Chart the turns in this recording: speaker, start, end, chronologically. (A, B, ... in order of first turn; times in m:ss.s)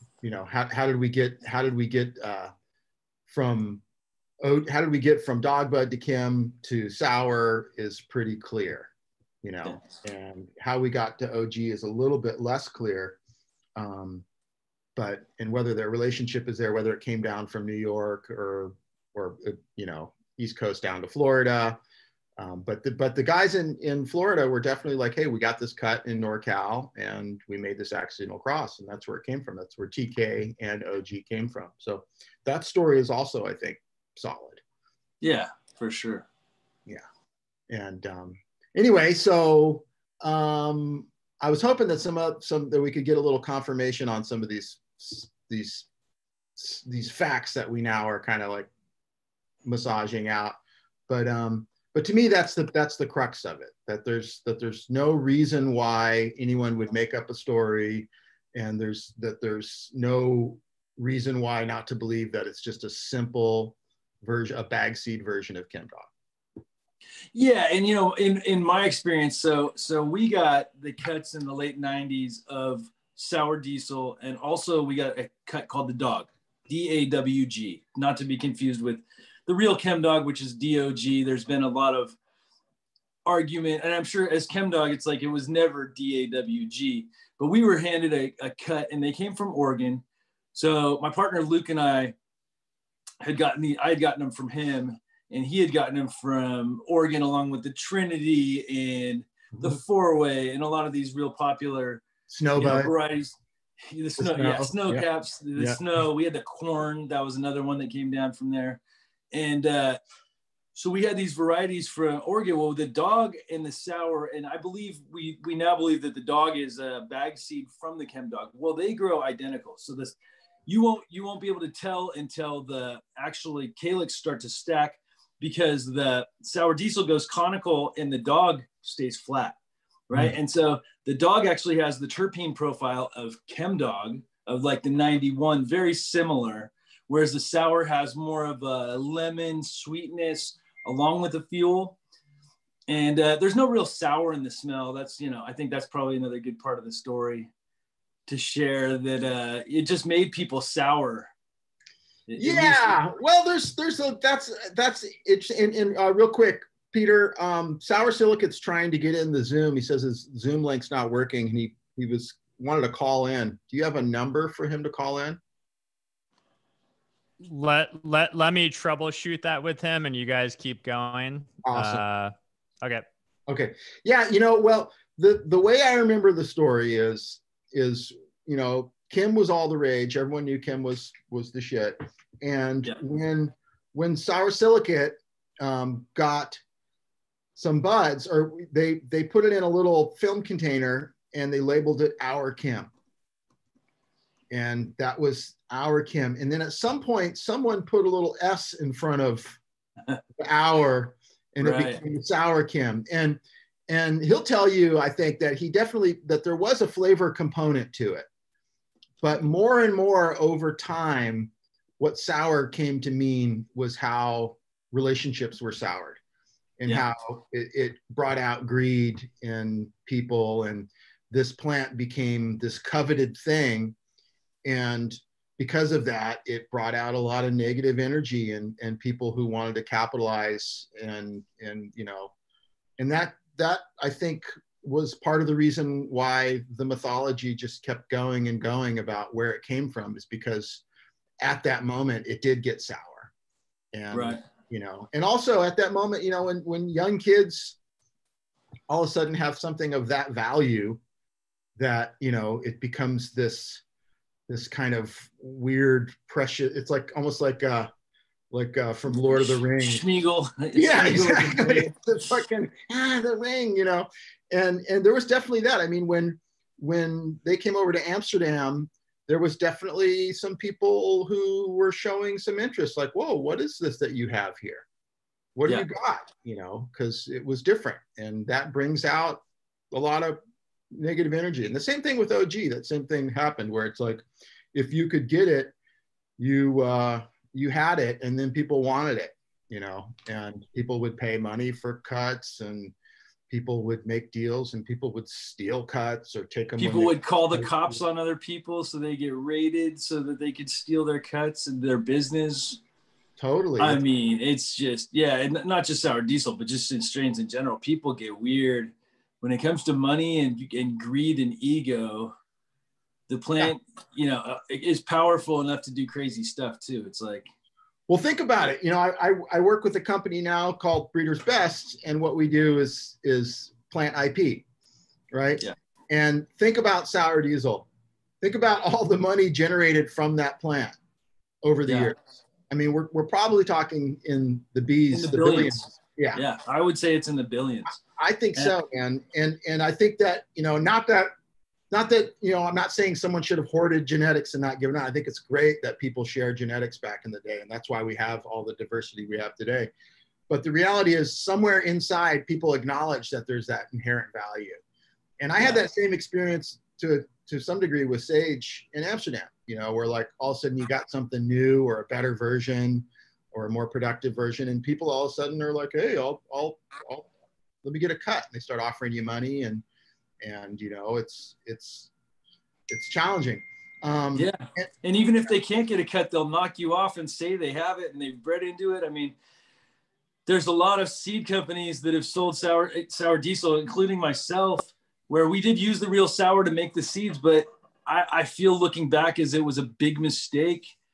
0:00.2-0:02.5 A
0:03.3-0:03.8 A
0:04.4-0:08.9 A
0:09.4-0:13.2 A
0:13.8-0:14.2 A
0:15.0-0:21.8 A
0:22.4-0:34.6 A
0:35.2-0:36.2 B
0:37.7-0:45.9 A
0:46.6-0:48.7 A
0:49.6-0:50.5 A
0:51.1-1:06.1 A
1:07.3-1:22.2 B
1:23.2-1:30.0 B
1:30.5-1:32.1 B
1:33.2-1:42.0 B
1:42.3-1:42.9 A
1:42.6-1:48.8 B
1:44.2-1:45.8 A
1:49.3-1:50.0 B
1:50.7-2:09.6 B
2:10.1-2:22.0 B
2:22.9-2:27.5 B
2:28.3-2:31.3 B
2:32.3-2:33.0 B
2:32.4-2:45.4 A
2:47.4-2:53.0 C
2:51.6-2:52.0 A
2:53.5-3:06.6 A
3:07.6-3:12.9 A
3:14.5-3:19.6 A
3:20.4-3:28.3 A
3:21.6-3:22.0 B
3:29.2-3:36.2 A
3:36.8-3:44.0 A
3:44.6-3:52.3 A
3:53.0-4:00.8 A
4:01.4-4:03.3 A
4:03.9-4:07.8 A
4:04.1-4:04.4 B
4:08.9-4:11.0 A
4:11.8-4:13.8 A
4:14.5-4:17.9 A
4:18.5-4:20.0 A
4:19.3-4:21.9 B
4:20.8-4:34.9 A
4:35.6-4:40.4 A
4:40.9-4:45.7 A
4:46.4-4:52.9 A
4:53.5-4:58.0 A
4:56.8-5:02.8 B
5:03.4-5:04.0 A
5:03.8-5:12.4 B
5:13.3-5:17.5 B
5:18.1-5:24.6 A
5:25.3-5:27.9 A
5:28.4-5:31.0 A
5:31.6-5:36.4 A
5:31.9-5:32.1 B
5:35.1-5:35.8 B
5:36.3-5:38.0 B
5:38.1-5:41.3 A
5:41.9-5:49.9 A
5:50.5-5:54.8 A
5:55.4-6:07.3 A
6:07.8-6:09.8 A
6:10.4-6:12.1 A
6:12.9-6:14.9 A
6:14.4-6:19.4 B
6:20.4-6:30.9 B